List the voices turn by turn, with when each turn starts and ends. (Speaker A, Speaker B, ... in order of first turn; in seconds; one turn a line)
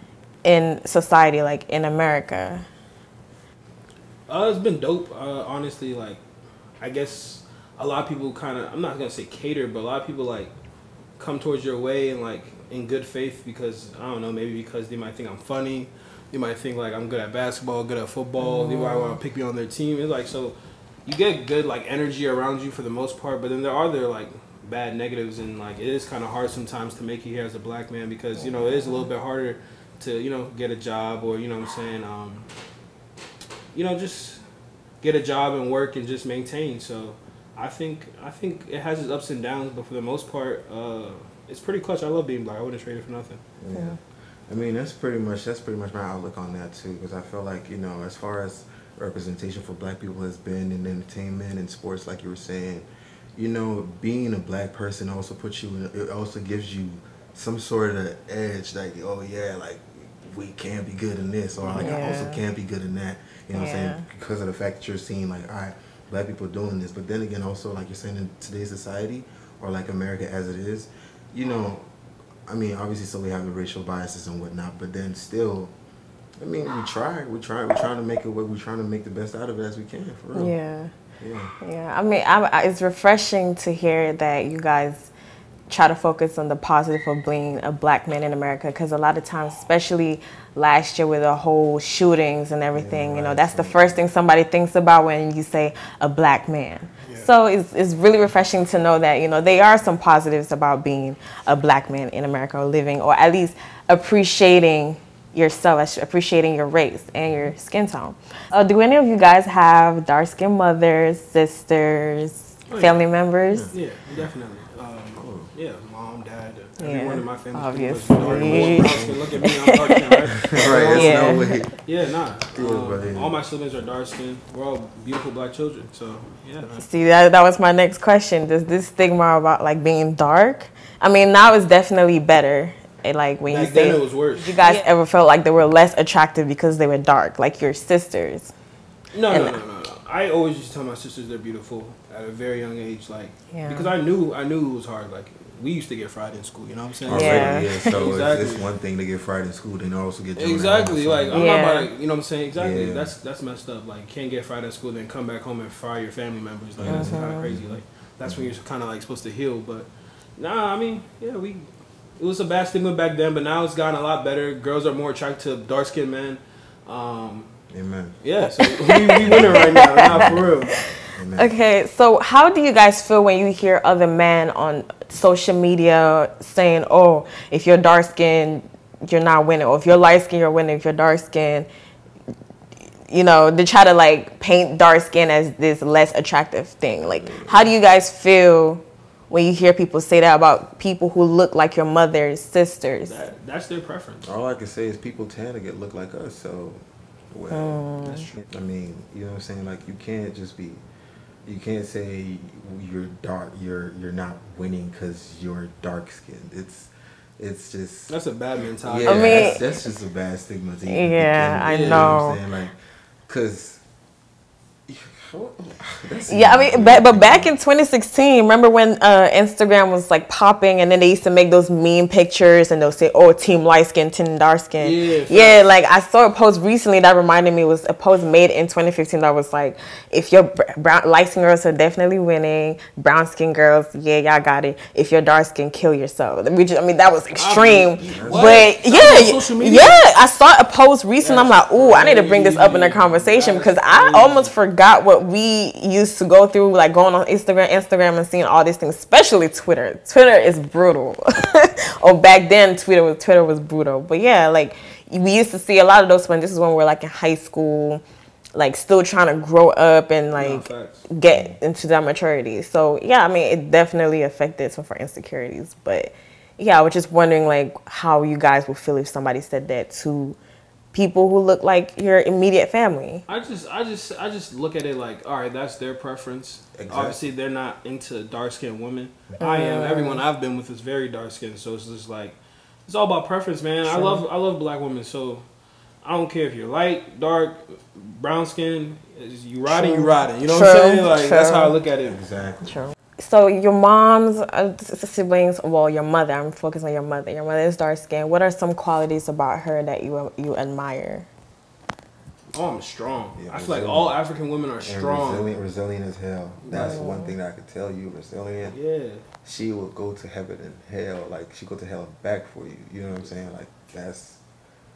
Speaker A: 0.4-2.6
Speaker B: 4.3-6.2
Speaker B: 6.8-10.5
Speaker B: 11.2-32.5
Speaker A: 18.4-19.2
Speaker A: 28.4-29.1
Speaker B: 33.7-34.4
Speaker B: 35.0-43.4
Speaker C: 43.6-71.9
Speaker A: 43.7-44.0
Speaker A: 61.6-62.4
Speaker A: 63.5-64.0
Speaker C: 72.5-75.7
Speaker C: 76.4-80.5
Speaker A: 80.3-80.9
Speaker C: 81.2-81.5
Speaker A: 81.6-85.1
Speaker A: 85.7-113.7
Speaker C: 92.7-94.0
Speaker B: 97.0-97.3
Speaker B: 112.7-113.0
Speaker C: 113.5-114.2
Speaker B: 113.7-126.8
Speaker C: 115.2-115.5
Speaker A: 116.8-121.6
Speaker C: 118.2-119.3
Speaker C: 120.4-121.7
Speaker C: 122.5-123.4
Speaker A: 126.8-138.5
Speaker B: 133.5-134.6
Speaker B: 139.1-148.6
Speaker A: 139.3-139.6
Speaker A: 143.5-143.9
Speaker C: 147.1-151.4
Speaker A: 147.1-148.0
Speaker B: 150.3-161.7
Speaker A: 151.3-151.9
Speaker C: 152.5-153.1
Speaker C: 156.8-158.6
Speaker A: 156.8-157.5
Speaker B: 162.2-167.5
Speaker C: 167.7-168.2
Speaker B: 168.2-170.7
Speaker A: 168.8-170.1
Speaker C: 169.2-170.6
Speaker C: 171.1-171.5
Speaker A: 171.3-181.7
Speaker A: 183.1-193.2
Speaker C: 187.0-187.7
Speaker B: 193.1-194.3
Speaker C: 194.2-197.8
Speaker A: 197.5-198.3
Speaker B: 198.0-198.4
Speaker C: 198.5-200.8
Speaker C: 201.4-208.1
Speaker B: 208.1-209.6
Speaker C: 208.8-212.8
Speaker A: 209.0-209.6
Speaker A: 210.8-212.4
Speaker B: 211.7-212.2
Speaker C: 213.3-213.8
Speaker C: 214.9-217.5
Speaker A: 216.3-258.0
Speaker B: 224.8-225.7
Speaker B: 237.3-240.0
Speaker C: 238.0-238.7
Speaker B: 241.2-244.5
Speaker A: 258.5-270.4
Speaker B: 260.4-261.1
Speaker C: 261.3-261.6
Speaker A: 270.9-273.2
Speaker B: 273.3-285.4
Speaker C: 276.8-277.2
Speaker A: 279.4-280.2
Speaker A: 283.9-284.2
Speaker B: 286.0-292.2
Speaker A: 289.6-291.7
Speaker C: 292.0-292.7
Speaker A: 292.6-301.3
Speaker B: 302.5-305.5
Speaker C: 303.3-304.2
Speaker C: 304.8-308.8
Speaker B: 306.6-307.0
Speaker A: 306.7-307.3
Speaker B: 308.6-309.2
Speaker C: 309.4-314.4